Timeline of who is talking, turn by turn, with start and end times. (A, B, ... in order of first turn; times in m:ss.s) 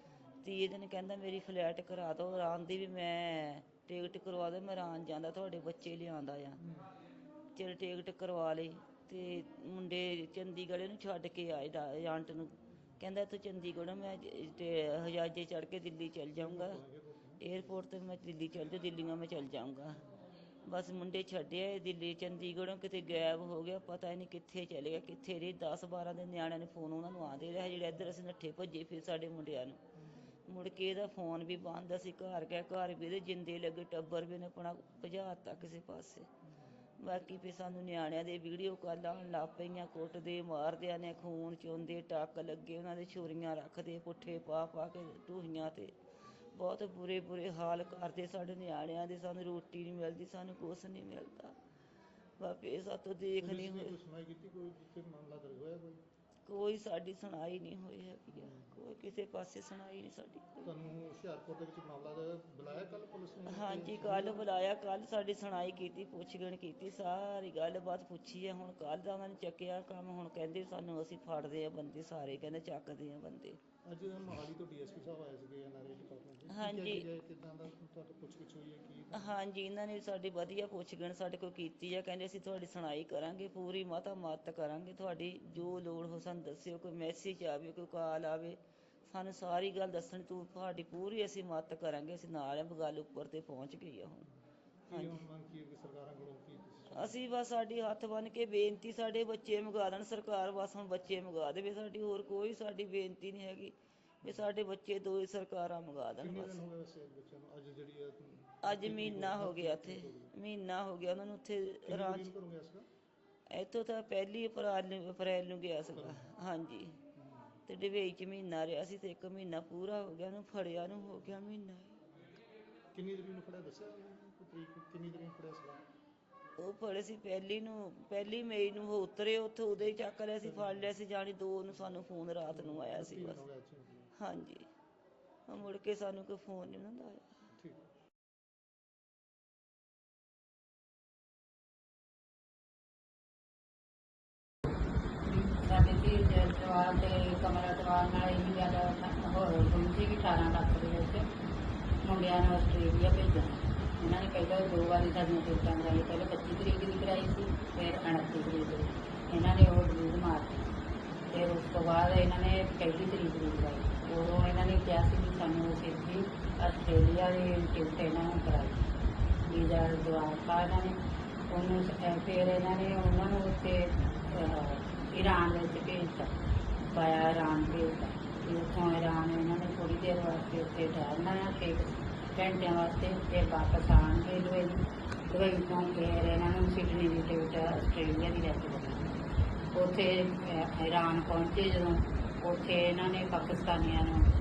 0:00.4-0:06.6 A
0:06.6-0:06.9 B
0:07.5-0:16.8 A
0:16.4-0:17.7 B
0:17.4-0:20.0 A
0:20.6-0:29.8 A
0:30.0-0:30.4 B
0:30.5-0:36.3 A
0:37.0-0:45.9 A
0:46.6-0:51.6 A
0:52.4-0:54.0 A
0:53.4-0:56.0 B
0:56.5-1:00.7 A
0:58.3-0:58.8 B
1:00.6-1:04.5 B
1:03.5-1:13.6 A
1:13.8-1:19.4 B
1:16.5-1:17.1 A
1:19.1-1:34.3 A
1:34.9-1:37.2 B
1:34.9-1:35.2 A
1:36.9-1:46.6 A
1:46.2-1:50.3 B
1:48.6-1:52.3 A
1:51.9-1:52.8 B
1:53.5-1:57.0 A
1:55.9-1:56.3 B
1:57.2-1:57.6 B
1:57.7-2:02.0 A
2:02.9-2:05.8 B
2:06.6-2:13.4 A
2:10.4-2:10.9 B
2:12.5-2:14.1 B
2:14.2-2:14.7 A
2:15.5-2:17.5 A
2:17.6-2:17.8 B
2:25.3-2:31.3 C
2:32.0-2:40.7 C
2:41.3-2:48.9 C
2:49.5-2:51.0 C
2:51.5-2:56.4 C
2:56.9-3:09.2 C
3:09.7-3:14.3 C